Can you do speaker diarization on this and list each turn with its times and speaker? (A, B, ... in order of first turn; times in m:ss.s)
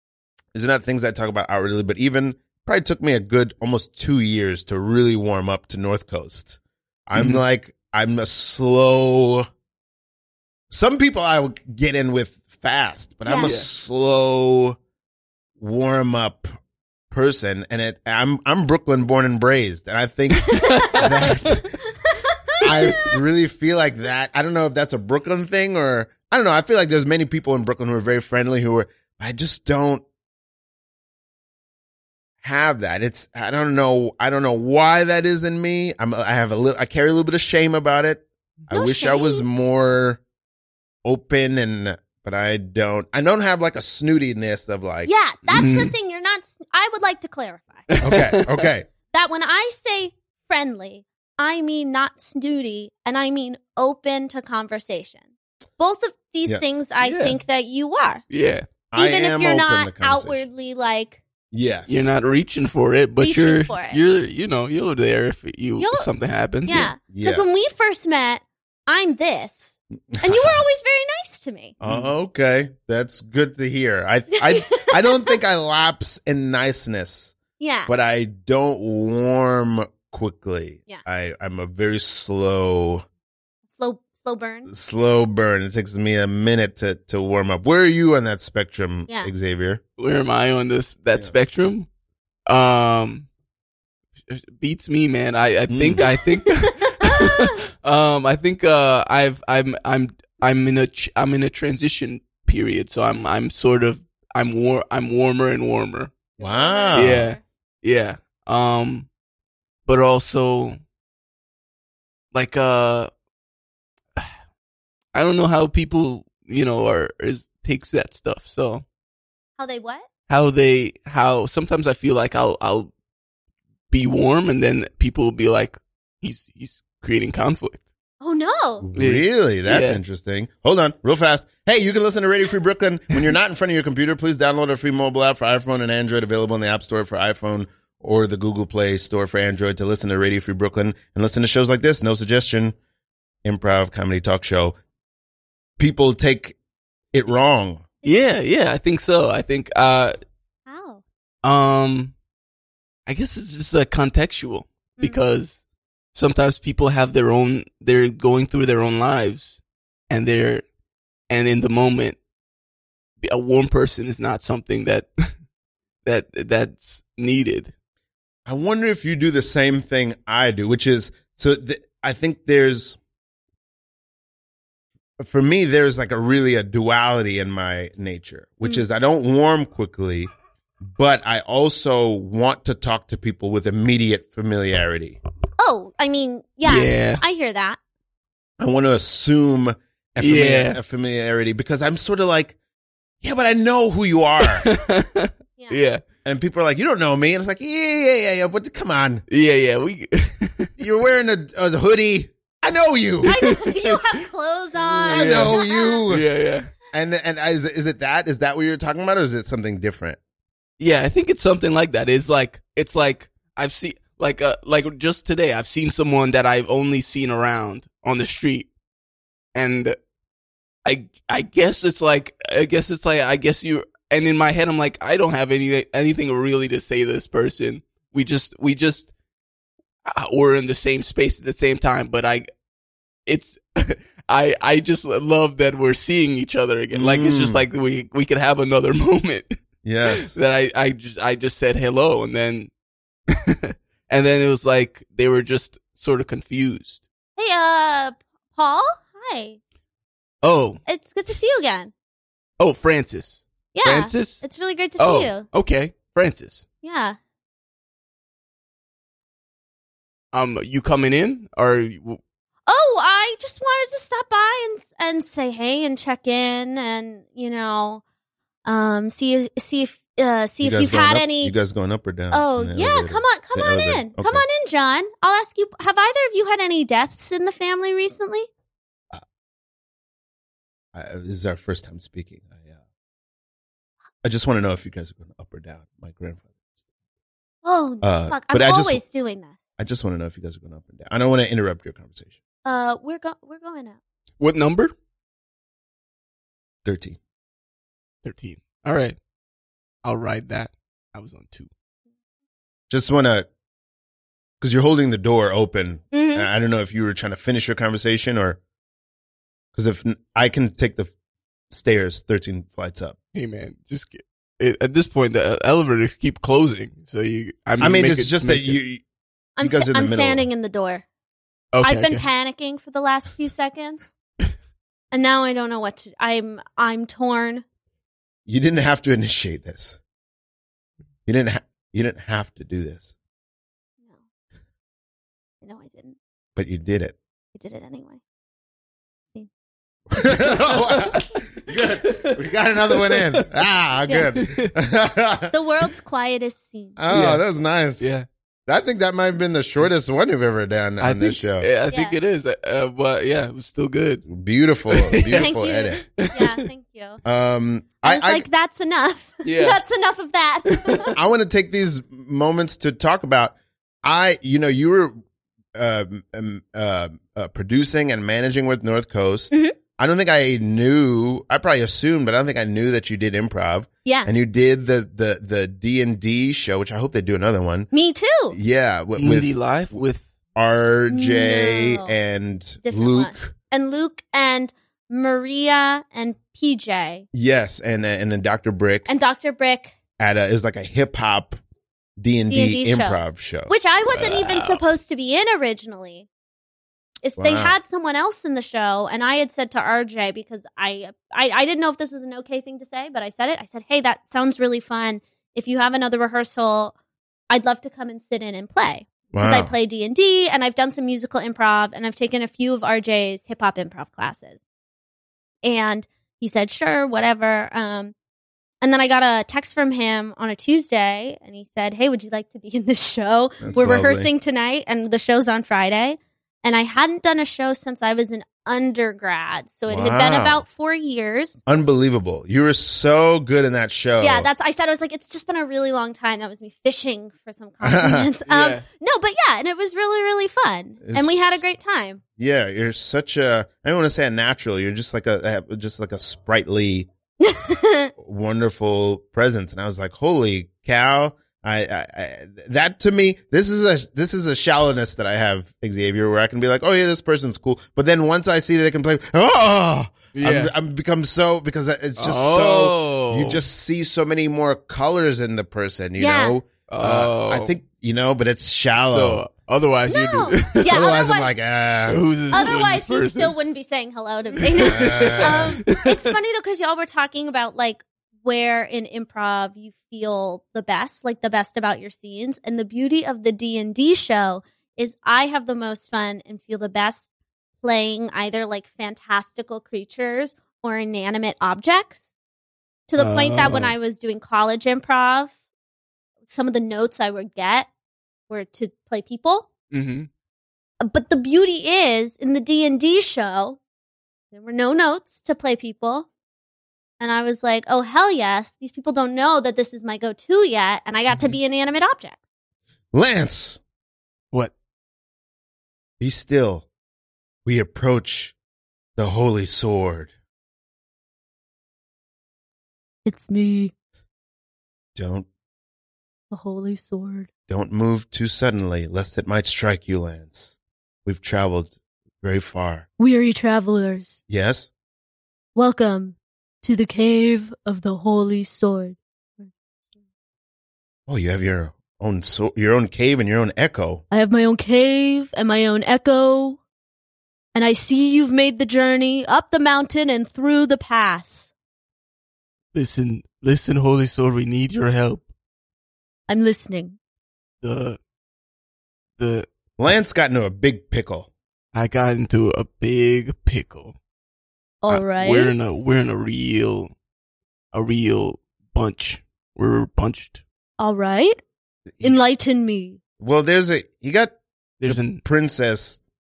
0:00.5-0:09.5 A
0:07.2-0:07.4 B
0:10.7-0:14.8 A
0:13.3-0:13.5 C
0:13.4-0:13.7 B
0:15.6-0:16.5 A
0:17.1-0:21.7 A
0:20.5-0:21.6 B
0:20.6-0:20.9 C
0:22.3-0:23.1 C
0:22.6-0:30.0 A
0:32.4-0:40.2 A
0:38.7-0:39.4 C
0:41.0-0:45.1 A
0:45.0-0:47.9 C
0:45.5-0:45.9 B
0:47.9-0:48.5 B
0:48.0-0:48.9 A
0:49.1-0:55.2 C
0:55.8-0:58.2 C
0:56.5-0:56.7 A
0:57.0-0:57.4 B
0:58.3-0:58.7 B
0:58.9-1:00.5 A
0:59.0-1:01.2 C
1:01.5-1:02.2 A
1:01.9-1:06.9 B
1:03.2-1:04.0 C
1:05.8-1:06.1 C
1:06.7-1:11.8 C
1:06.7-1:07.7 A
1:10.1-1:10.6 A
1:11.8-1:17.4 A
1:11.8-1:12.1 B
1:14.3-1:15.4 C
1:17.6-1:17.9 C
1:17.9-1:23.0 A
1:23.7-1:24.7 C
1:24.7-1:29.8 A
1:30.0-1:31.9 B
1:32.5-1:33.3 B
1:34.3-1:46.1 B
1:35.7-1:36.0 A
1:36.9-1:37.5 C
1:46.4-1:47.3 A
1:46.4-1:47.4 C
1:47.0-1:49.1 B
1:49.9-1:50.8 B
1:52.3-1:53.1 B
1:55.1-1:58.8 B
1:59.6-2:00.1 C
2:00.3-2:02.9 B
2:03.9-2:07.8 B
2:08.2-2:08.9 C
2:08.8-2:22.8 A
2:09.0-2:10.0 B
2:23.4-2:24.8 A
2:25.8-2:26.6 A
2:27.1-2:27.8 A
2:28.0-2:30.2 B
2:30.7-2:31.0 C
2:31.4-2:32.1 B
2:33.1-2:35.6 B
2:36.1-2:39.6 B
2:40.1-2:40.6 B
2:41.3-2:42.2 B
2:43.2-2:45.1 B
2:46.0-2:47.7 B
2:48.5-2:53.0 A
2:55.2-3:00.3 A
3:00.9-3:05.2 A
3:05.6-3:07.8 C
3:06.6-3:07.2 B
3:08.6-3:12.6 A
3:10.2-3:10.8 B
3:13.2-3:14.7 A
3:14.4-3:16.0 B
3:16.2-3:19.2 A
3:19.3-3:20.7 B
3:20.8-3:23.5 A
3:23.2-3:26.0 C
3:23.2-3:24.2 B
3:24.8-3:26.7 B
3:25.1-3:26.2 A
3:26.9-3:30.2 A
3:30.8-3:38.7 B
3:39.6-3:40.0 B
3:40.8-3:49.1 B
3:50.1-3:52.5 B
3:53.3-4:02.7 B
3:56.9-3:57.6 A
3:59.8-4:00.4 A
4:03.3-4:07.1 B
4:07.4-4:09.6 C
4:10.4-4:10.8 B
4:10.9-4:11.9 C
4:12.6-4:14.4 B
4:13.7-4:15.5 C
4:15.0-4:16.6 B
4:16.8-4:17.2 C
4:20.3-4:22.2 B
4:22.7-4:28.0 C
4:28.6-4:31.5 C
4:30.6-4:34.4 A
4:32.3-4:38.5 C
4:40.9-4:42.7 A
4:44.2-4:46.8 A
4:47.6-4:49.6 C
4:48.0-4:49.0 A
4:49.8-4:52.4 A
4:52.6-4:54.0 C
4:54.4-4:54.9 B
4:56.8-4:57.2 A
4:58.2-4:59.2 B
5:00.0-5:01.7 B
5:02.9-5:03.5 A
5:04.6-5:08.6 A
5:06.1-5:06.5 C
5:09.8-5:11.1 A
5:11.7-5:13.2 A
5:13.3-5:18.8 B
5:17.8-5:19.0 A
5:19.6-5:21.0 C
5:19.6-5:20.5 A
5:21.7-5:22.2 B
5:21.8-5:24.0 C
5:25.1-5:27.6 C
5:28.5-5:30.0 A
5:31.3-5:33.1 A
5:35.6-5:36.2 C
5:36.6-5:37.2 A
5:37.6-5:38.2 C
5:40.1-5:45.5 A
5:42.9-5:43.4 B
5:44.4-5:44.7 B
5:45.5-5:47.0 C
5:47.0-5:51.7 A
5:47.1-5:47.4 B
5:48.0-5:48.3 B
5:51.0-5:54.3 B
5:51.9-5:52.2 C
5:54.3-5:56.0 A
5:54.9-5:55.5 B
5:55.4-5:57.2 C
5:56.2-5:56.6 B
5:57.2-5:58.5 A
5:58.0-6:01.1 C
5:59.4-5:59.8 B
6:00.7-6:01.1 B
6:01.1-6:05.1 A
6:05.8-6:17.9 A
6:09.5-6:09.8 C
6:14.0-6:14.3 C
6:17.9-6:18.6 C
6:18.5-6:20.0 A
6:19.2-6:20.2 B
6:20.6-6:23.5 A
6:21.1-6:22.1 C
6:22.8-6:27.3 C
6:27.3-6:29.1 A
6:29.1-6:30.0 C
6:30.2-6:31.6 A
6:32.2-6:33.7 A
6:32.5-6:36.3 C
6:34.1-6:34.8 B
6:37.2-6:47.0 C
6:37.4-6:37.8 A
6:47.5-6:54.6 C
6:49.3-6:49.7 A
6:55.6-6:58.2 C
6:58.8-7:11.6 C
7:03.6-7:04.3 A
7:09.9-7:10.6 A
7:11.7-7:14.5 A
7:14.2-7:22.2 C
7:17.8-7:18.3 A
7:18.5-7:18.8 B
7:21.0-7:21.7 A
7:22.4-7:27.1 A
7:27.4-7:28.1 C
7:28.2-7:49.4 A
7:40.3-7:40.7 B
7:42.2-7:43.6 B
7:46.2-7:46.6 C
7:46.9-7:47.7 B
7:49.0-7:51.0 B
7:50.1-7:51.5 C
7:50.9-7:52.9 A
7:52.1-7:53.6 B
7:52.5-8:07.3 C
7:54.7-7:56.4 B
7:54.8-7:55.8 A
8:07.8-8:12.3 C
8:13.1-8:15.6 C
8:13.2-8:14.0 B
8:16.5-8:17.9 C
8:18.5-8:19.7 C
8:19.9-8:20.3 B
8:21.0-8:23.8 C
8:24.5-8:26.3 C
8:27.2-8:32.4 C
8:33.1-8:33.8 A
8:36.2-8:36.9 A
8:37.6-8:38.5 A
8:39.2-8:40.3 A
8:43.2-8:43.9 C
8:45.2-8:45.5 A
8:46.5-8:47.5 C
8:47.7-8:53.1 A
8:53.2-8:54.4 C
8:54.5-8:54.9 A
8:55.8-8:59.7 C
9:01.3-9:04.2 A
9:04.3-9:06.8 C
9:07.7-9:11.7 C
9:12.9-9:15.4 B
9:16.5-9:17.2 C
9:17.8-9:18.2 B
9:19.4-9:19.7 B
9:20.0-9:21.5 A
9:21.9-9:24.2 B
9:25.0-9:25.8 C
9:25.1-9:27.1 B
9:27.9-9:30.6 B
9:31.0-9:31.6 C
9:32.2-9:33.2 C
9:33.4-9:34.5 A
9:35.0-9:35.4 B
9:35.0-9:36.2 A